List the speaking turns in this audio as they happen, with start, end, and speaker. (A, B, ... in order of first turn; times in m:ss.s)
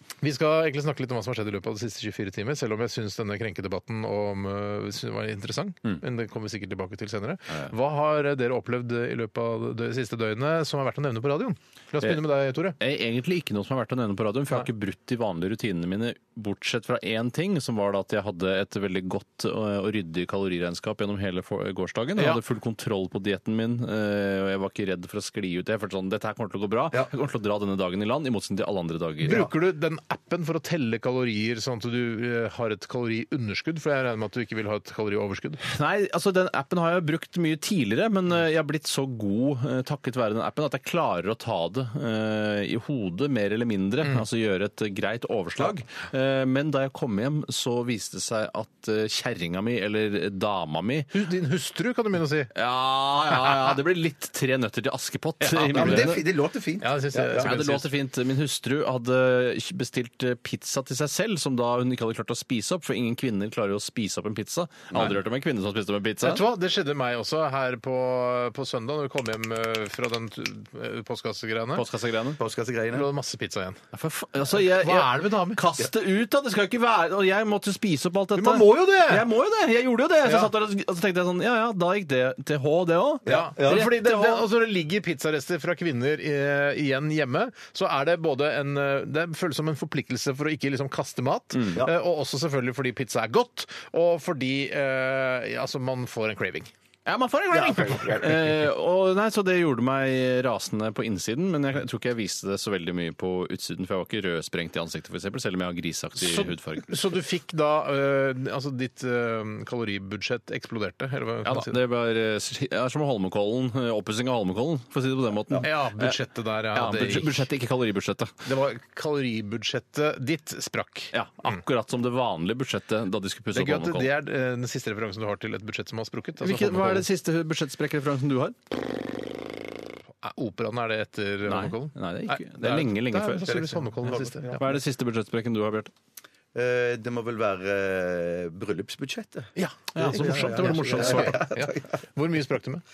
0:00.2-0:12.8 A
0:12.8-0:29.4 B
0:29.2-0:35.6 A
0:35.6-0:51.1 B
0:51.1-0:52.5 A
0:52.5-0:56.2 B
0:55.4-0:56.2 A
0:55.7-0:57.5 C
0:56.8-0:57.9 A
0:57.4-1:06.4 B
1:06.2-1:11.8 A
1:11.7-1:12.4 B
1:12.4-1:13.1 C
1:12.9-1:13.8 A
1:13.9-1:24.4 B
1:14.5-1:15.6 A
1:18.3-1:19.3 A
1:20.2-1:20.5 A
1:23.2-1:23.9 C
1:23.2-1:36.7 A
1:37.0-1:46.9 B
1:37.5-1:38.4 C
1:46.2-1:51.8 A
1:51.4-1:56.2 B
1:55.6-1:57.4 A
1:56.7-1:58.3 B
1:58.4-2:01.6 A
2:01.1-2:04.1 B
2:03.5-2:07.1 A
2:06.4-2:08.6 B
2:10.2-2:14.8 A
2:11.4-2:13.5 B
2:13.4-2:14.6 C
2:14.6-2:15.9 B
2:16.5-2:21.9 C
2:19.6-2:22.8 A
2:19.9-2:21.4 B